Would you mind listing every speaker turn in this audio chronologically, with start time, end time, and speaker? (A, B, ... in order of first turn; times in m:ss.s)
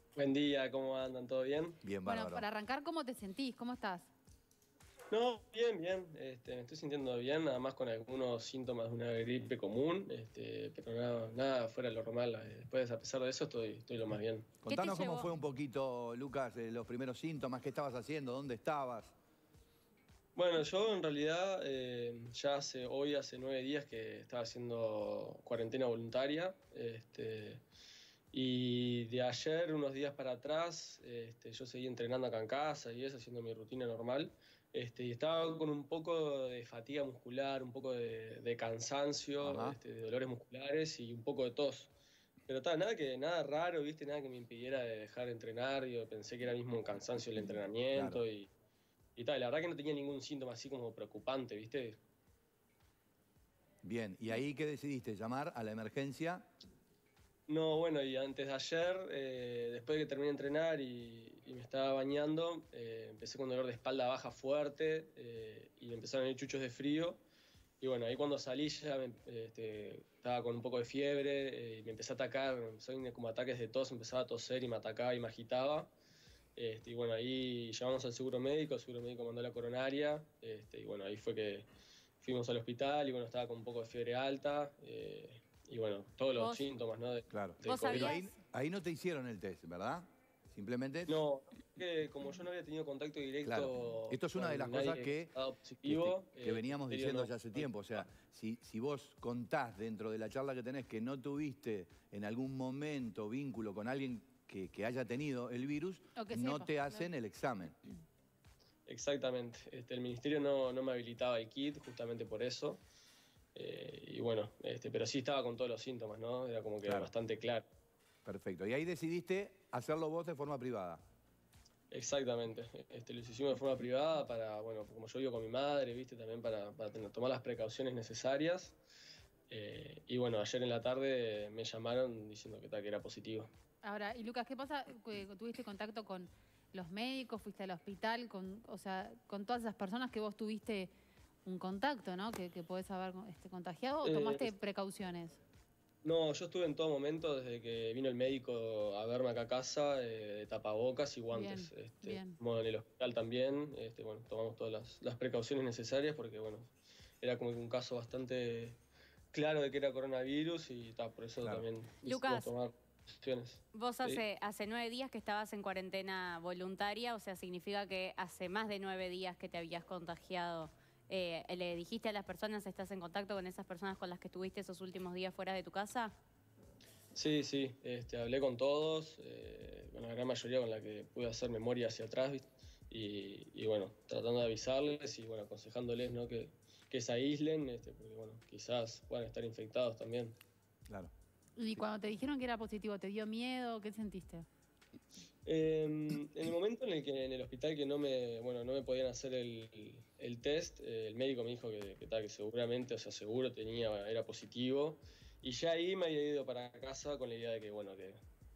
0:00.2-0:01.8 A
0:01.8-0:02.4 B
0:02.0-0:04.1 C
0:05.1-0:14.5 A
0:14.6-0:19.1 B
0:14.7-0:15.3 D
0:20.3-0:27.6 A
0:28.3-0:41.9 A
0:39.4-0:39.8 B
0:42.5-0:48.5 A
0:47.9-0:48.2 B
0:49.2-0:52.0 A
0:53.8-0:56.5 B
0:57.5-1:07.2 A
1:07.8-1:15.9 A
1:16.6-1:21.6 A
1:22.2-1:28.1 A
1:26.4-1:26.7 D
1:27.3-1:31.2 B
1:27.6-1:28.3 D
1:31.1-1:37.8 A
1:33.4-1:35.3 B
1:35.8-1:47.8 B
1:46.2-1:47.0 C
1:48.9-1:52.8 A
1:53.5-1:57.6 A
1:56.8-1:57.1 B
1:58.2-2:01.0 B
2:01.9-2:08.8 A
2:09.5-2:13.5 A
2:13.8-2:20.9 C
2:21.4-2:25.4 C
2:24.0-2:24.5 A
2:26.0-2:38.8 A
2:31.3-2:32.4 C
2:39.3-2:44.2 A
2:42.0-2:42.5 D
2:43.7-2:56.1 D
2:57.1-3:10.4 A
3:11.6-3:14.4 C
3:15.4-3:28.2 A